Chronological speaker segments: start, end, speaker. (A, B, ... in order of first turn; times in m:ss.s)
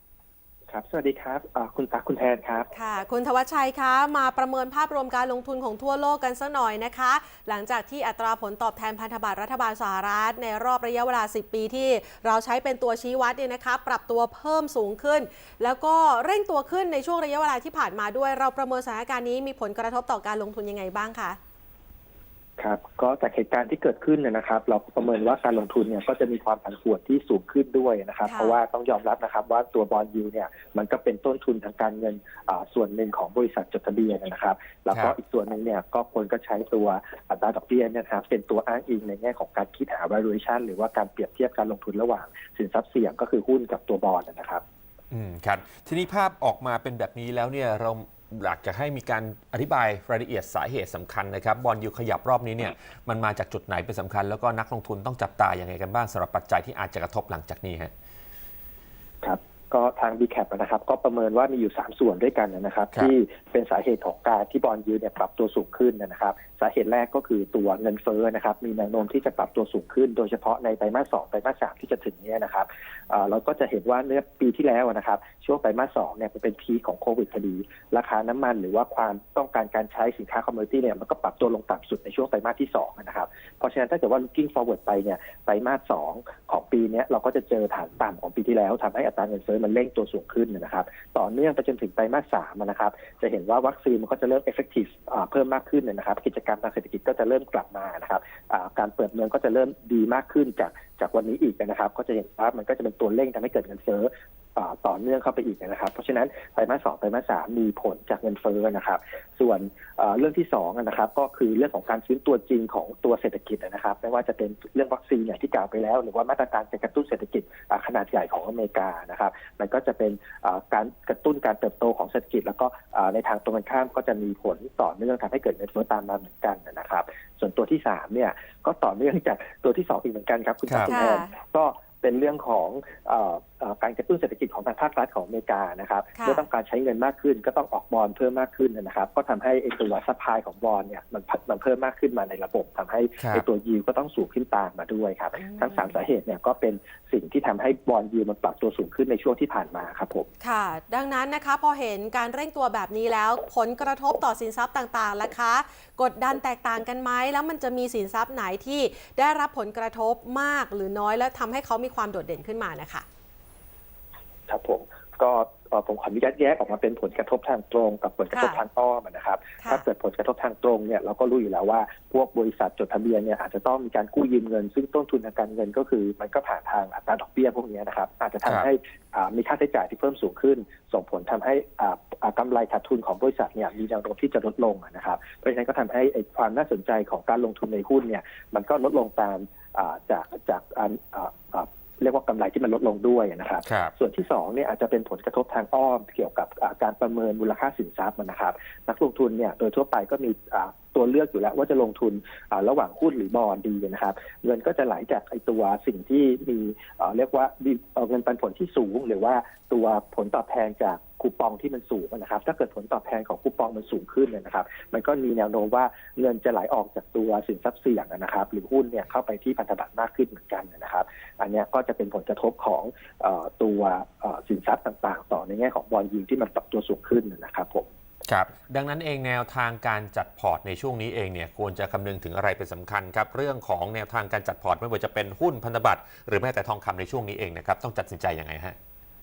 0:00.7-0:02.7 A
0:02.7-0:21.4 B
0:22.6-0:44.6 A
0:28.2-0:28.6 B
0:45.1-0:57.9 C
0:59.2-2:30.3 A
2:10.9-2:11.3 B
2:16.2-2:16.4 B
2:23.2-2:23.4 C
2:25.4-2:25.9 B
2:30.4-2:43.0 B
2:44.5-3:47.9 A
2:48.3-2:48.6 B
3:13.6-3:13.9 C
3:48.3-3:58.8 C